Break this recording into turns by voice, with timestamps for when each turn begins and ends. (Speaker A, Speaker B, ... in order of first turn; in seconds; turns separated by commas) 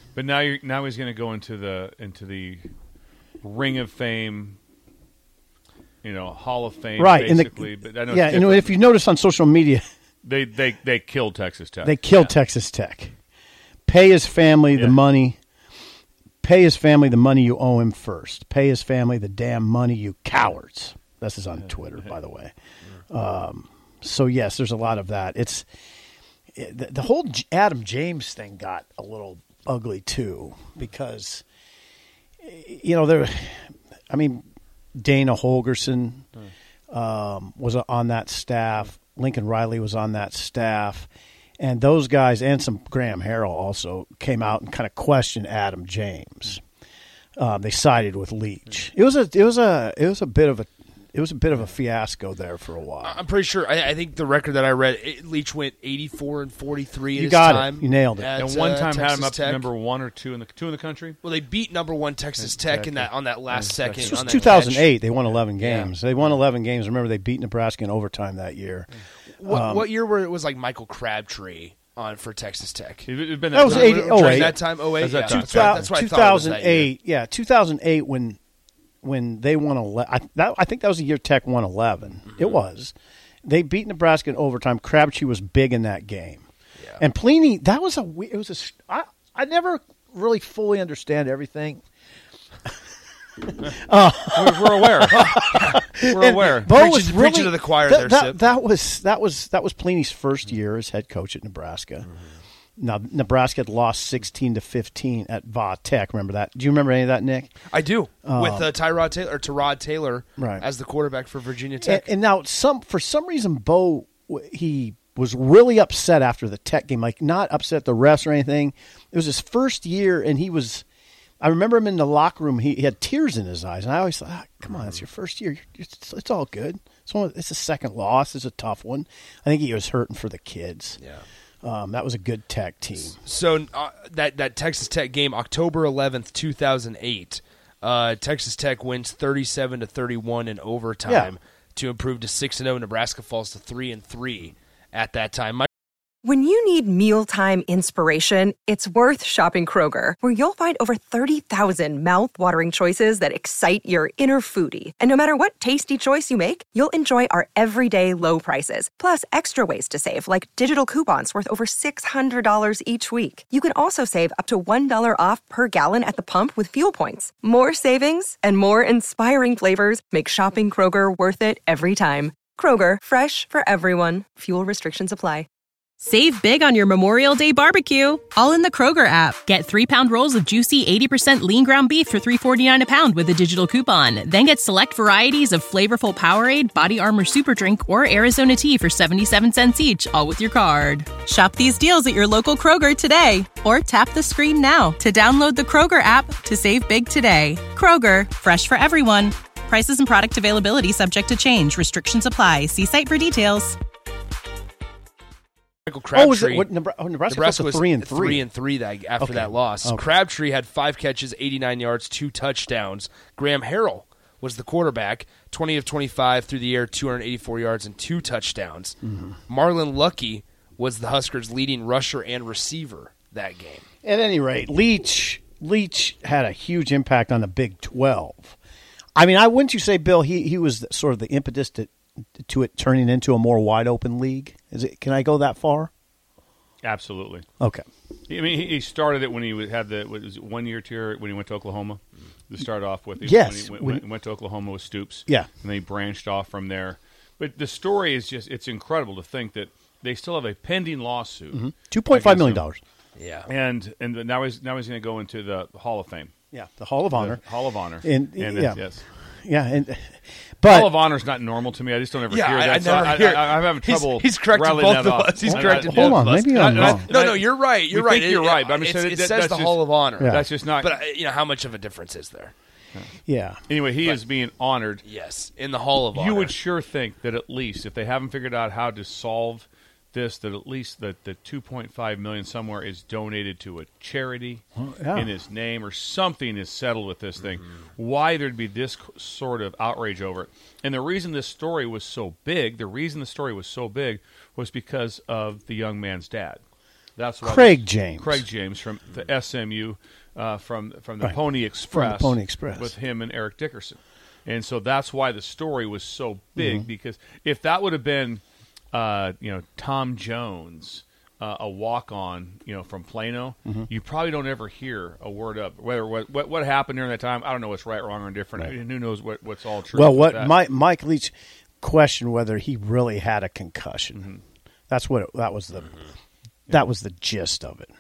Speaker A: 0.1-2.7, Speaker A: 3.4-4.6, Speaker A: 6.0-8.7, Speaker B: 7.0-9.8, Speaker A: 10.2-12.3, Speaker B: 11.8-13.1, Speaker B: 13.9-15.4, Speaker B: 16.4-22.5, Speaker B: 23.1-25.7, Speaker B: 26.6-31.4, Speaker B: 32.4-36.3, Speaker B: 36.9-41.1, Speaker B: 41.6-46.6, Speaker B: 47.4-53.2, Speaker C: 53.0-59.7, Speaker B: 57.1-58.3, Speaker A: 58.4-61.2, Speaker C: 61.2-65.0, Speaker A: 62.4-64.6, Speaker B: 64.0-68.9, Speaker C: 65.6-65.9, Speaker C: 69.4-73.1, Speaker B: 69.5-70.0, Speaker A: 73.1-75.9, Speaker B: 73.5-78.4, Speaker C: 73.7-76.9, Speaker B: 79.0-82.9, Speaker B: 83.5-86.5, Speaker B: 87.0-91.8, Speaker B: 93.6-102.1, Speaker A: 94.3-95.5, Speaker C: 95.1-98.4, Speaker A: 96.0-96.7, Speaker B: 102.8-107.5, Speaker C: 107.7-112.1, Speaker B: 108.2-108.7, Speaker B: 110.4-110.7, Speaker B: 111.8-120.8, Speaker B: 121.4-131.0, Speaker C: 131.0-131.2, Speaker B: 131.6-133.2, Speaker C: 133.1-145.7, Speaker B: 141.1-141.3, Speaker D: 146.2-175.5, Speaker E: 176.0-203.8, Speaker C: 205.9-206.7, Speaker B: 206.1-208.5, Speaker C: 207.3-219.0, Speaker B: 209.2-210.0, Speaker B: 219.1-219.4, Speaker C: 219.5-223.8, Speaker B: 224.0-228.6, Speaker B: 229.2-235.9, Speaker A: 236.8-237.4, Speaker B: 237.6-237.8, Speaker A: 238.3-252.6, Speaker B: 243.2-244.1, Speaker B: 251.5-252.8, Speaker C: 253.2-253.5, Speaker A: 253.5-256.3, Speaker B: 256.5-257.4, Speaker A: 257.1-259.0, Speaker B: 258.0-258.9, Speaker B: 259.4-261.1, Speaker A: 260.7-270.9, Speaker C: 262.3-272.5, Speaker B: 265.4-267.1, Speaker B: 270.2-270.5, Speaker B: 273.3-273.6, Speaker A: 273.7-275.0, Speaker C: 275.1-276.5, Speaker A: 276.2-284.6, Speaker B: 284.8-285.3, Speaker A: 285.1-296.6, Speaker A: 297.2-320.6, Speaker B: 297.4-298.4, Speaker B: 301.9-302.9, Speaker B: 306.6-306.9, Speaker B: 319.9-324.2, Speaker A: 324.2-324.4, Speaker B: 324.9-326.0, Speaker B: 326.7-327.9